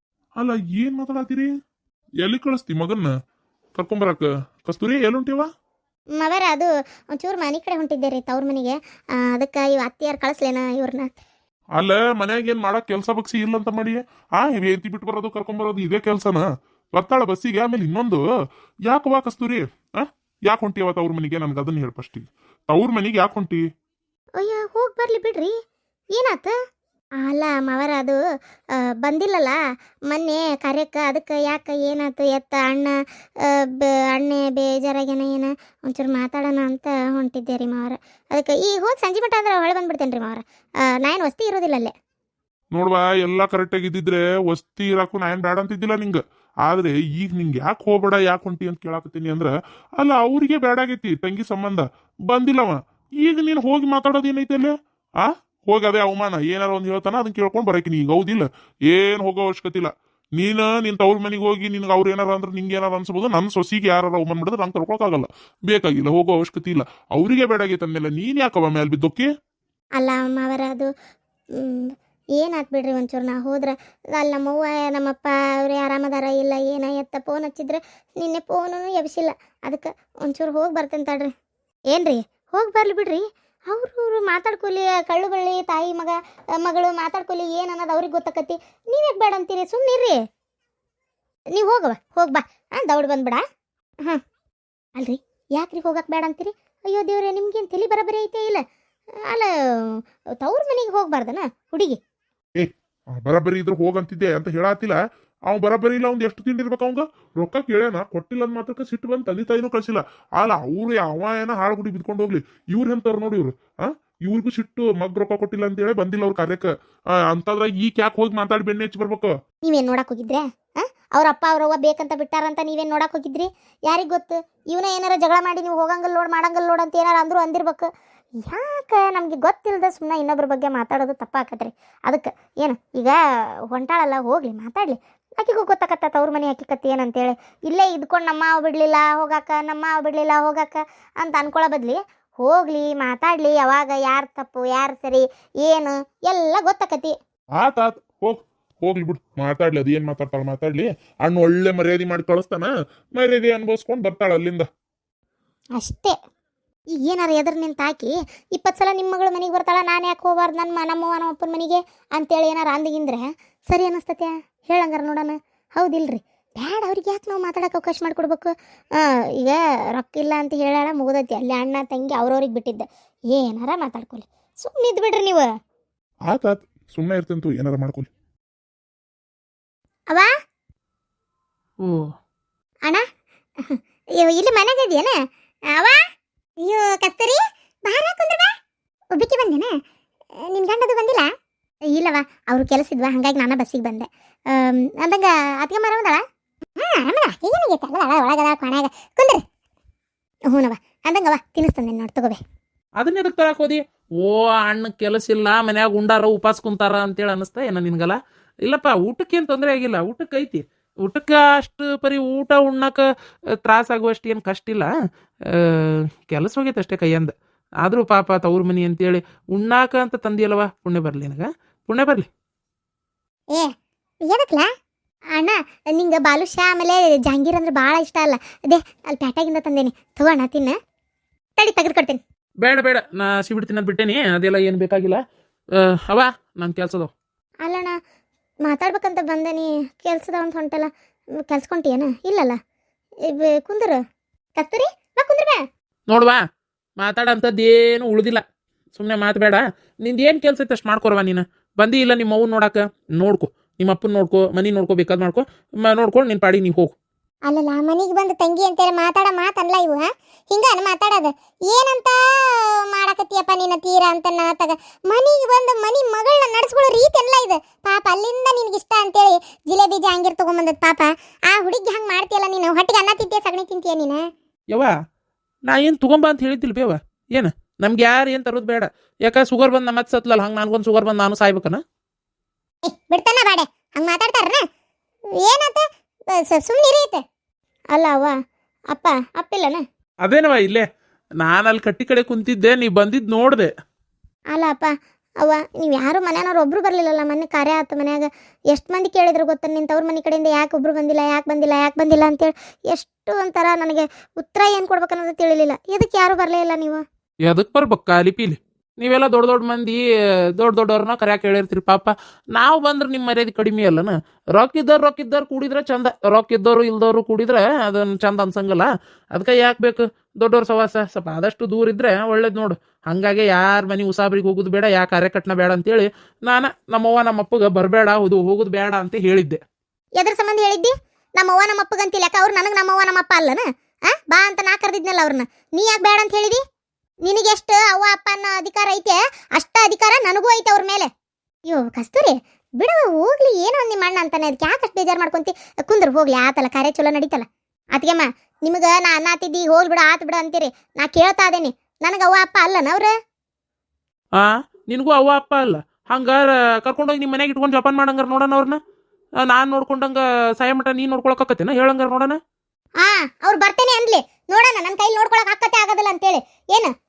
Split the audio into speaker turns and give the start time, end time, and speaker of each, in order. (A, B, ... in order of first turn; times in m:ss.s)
0:00.4-0:01.5 A
0:02.2-0:03.1 A
0:03.8-0:05.5 A
0:06.2-0:11.2 B
0:11.8-0:18.2 A
0:18.9-0:23.6 A
0:24.4-0:25.5 B
0:26.1-0:26.5 B
0:27.2-0:28.2 B
0:28.8-0:29.6 B
0:30.1-0:40.4 B
0:41.0-0:41.9 B
0:42.7-1:09.3 A
1:10.0-1:10.9 B
1:11.6-1:21.3 B
1:21.9-1:30.2 B
1:31.5-1:33.4 B
1:35.0-1:38.6 B
1:39.2-1:42.0 B
1:42.6-1:45.0 A
1:45.5-1:56.7 A
1:57.3-1:59.3 A
1:59.7-2:07.9 B
2:08.4-2:13.2 B
2:13.7-2:27.2 B
2:27.6-2:34.7 A
2:35.8-2:36.2 B
2:37.0-2:55.5 B
2:56.3-2:58.1 A
3:03.6-3:05.1 B
3:05.8-3:06.0 B
3:06.6-3:08.5 B
3:09.2-3:09.7 B
3:10.4-3:11.2 B
3:11.9-3:16.2 B
3:16.8-3:19.4 B
3:20.5-3:22.4 B
3:23.0-3:33.0 C
3:33.6-3:34.9 C
3:35.5-3:37.3 C
3:37.8-3:42.3 C
3:44.3-3:44.7 B
3:45.4-3:50.8 B
3:51.6-3:52.2 B
3:52.6-3:55.2 C
3:55.8-3:57.1 C
3:57.6-3:58.0 B
3:58.7-4:00.9 B
4:01.5-4:02.6 B
4:03.3-4:04.0 B
4:04.6-4:05.6 B
4:06.1-4:06.4 C
4:07.0-4:08.4 C
4:08.9-4:16.9 C
4:17.5-4:34.2 B
4:35.7-4:41.8 C
4:42.9-4:44.6 B
4:45.4-4:47.2 B
4:47.9-4:48.4 B
4:48.9-4:49.8 B
4:50.2-4:50.8 C
4:51.4-4:53.7 C
4:54.5-5:07.0 B
5:07.5-5:10.0 C
5:10.6-5:29.6 C
5:30.2-5:33.6 B
5:34.2-5:36.6 B
5:37.2-5:41.1 B
5:41.7-5:53.1 B
5:54.4-5:58.8 C
5:59.4-6:02.4 C
6:03.0-6:06.9 B